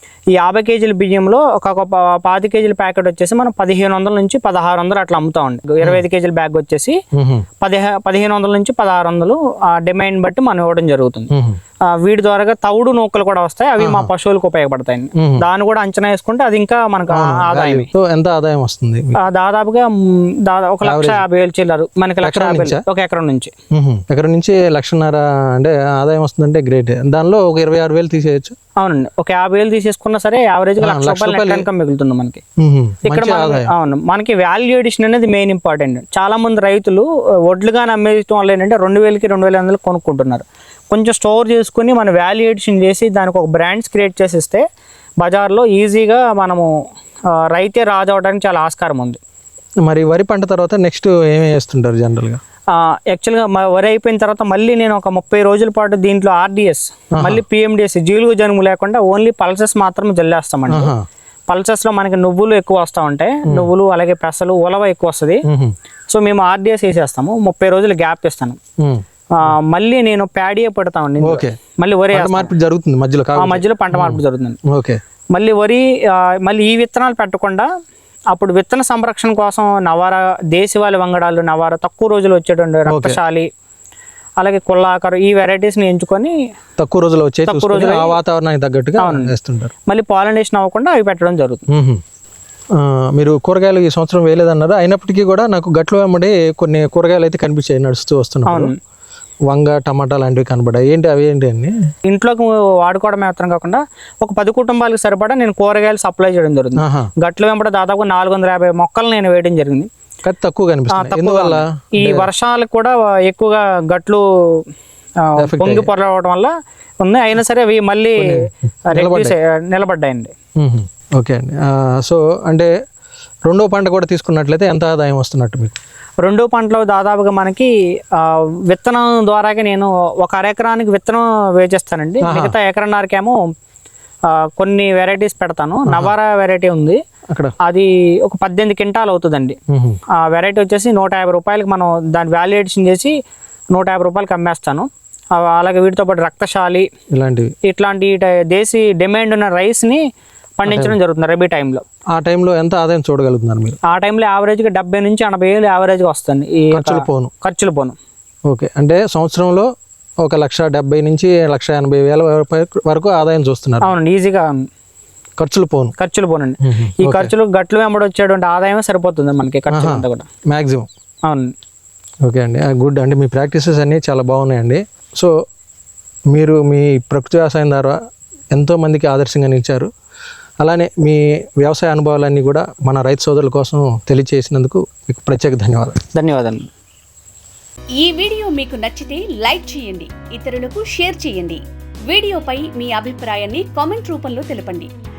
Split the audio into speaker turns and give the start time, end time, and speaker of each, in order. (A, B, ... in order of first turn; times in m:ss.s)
0:00.3-0:07.0 A
0:07.1-0:07.4 B
0:07.6-0:11.3 A
0:11.3-0:11.6 B
0:11.9-0:17.9 A
0:13.8-0:14.1 B
0:15.2-0:15.4 B
0:17.1-0:19.2 B
0:19.2-0:23.5 A
0:20.8-0:21.3 B
0:22.2-0:22.8 B
0:23.7-0:28.6 B
0:28.8-0:32.4 A
0:30.8-0:31.7 B
0:32.6-0:33.7 B
0:33.1-0:44.6 A
0:45.2-0:46.7 A
0:47.3-0:49.2 A
0:49.8-0:52.4 B
0:52.7-1:00.9 A
0:57.1-0:57.4 B
1:00.7-1:01.0 B
1:01.5-1:05.4 A
1:05.5-1:05.7 B
1:06.1-1:08.6 A
1:08.8-1:09.5 B
1:09.3-1:12.5 A
1:11.2-1:11.6 B
1:12.1-1:15.0 B
1:13.4-1:14.6 A
1:15.3-1:17.7 A
1:18.3-1:23.5 A
1:22.9-1:23.2 B
1:24.4-1:26.4 A
1:26.8-1:29.7 B
1:27.5-1:28.2 A
1:29.0-1:29.3 A
1:29.9-1:31.6 A
1:31.7-1:32.0 B
1:32.7-1:38.7 B
1:38.5-1:38.8 A
1:39.5-1:41.7 B
1:42.1-1:49.9 A
1:46.8-1:47.1 B
1:50.2-1:52.3 B
1:50.9-1:54.6 A
1:55.2-2:00.3 A
1:55.4-1:55.9 B
1:58.9-1:59.3 B
2:00.6-2:02.7 B
2:03.5-2:05.8 B
2:06.2-2:13.4 A
2:12.2-2:12.5 B
2:14.3-2:17.0 A
2:15.9-2:16.1 B
2:17.3-2:17.6 B
2:17.6-2:19.6 A
2:19.7-2:20.0 B
2:20.1-2:23.1 A
2:23.7-2:26.9 A
2:27.1-2:27.5 B
2:27.6-2:30.0 A
2:30.6-2:31.8 A
2:30.7-2:31.0 B
2:32.1-2:33.8 B
2:33.9-2:38.0 A
2:36.7-2:37.3 B
2:38.5-2:39.7 B
2:40.2-2:43.9 B
2:43.8-2:44.7 A
2:45.4-2:46.0 B
2:46.0-2:50.3 A
2:46.6-2:47.3 B
2:49.7-2:50.9 B
2:51.3-2:51.5 A
2:52.2-2:55.4 B
2:56.3-2:58.0 B
2:58.5-2:59.9 B
3:00.6-3:06.0 B
3:06.1-3:06.7 A
3:08.0-3:14.9 C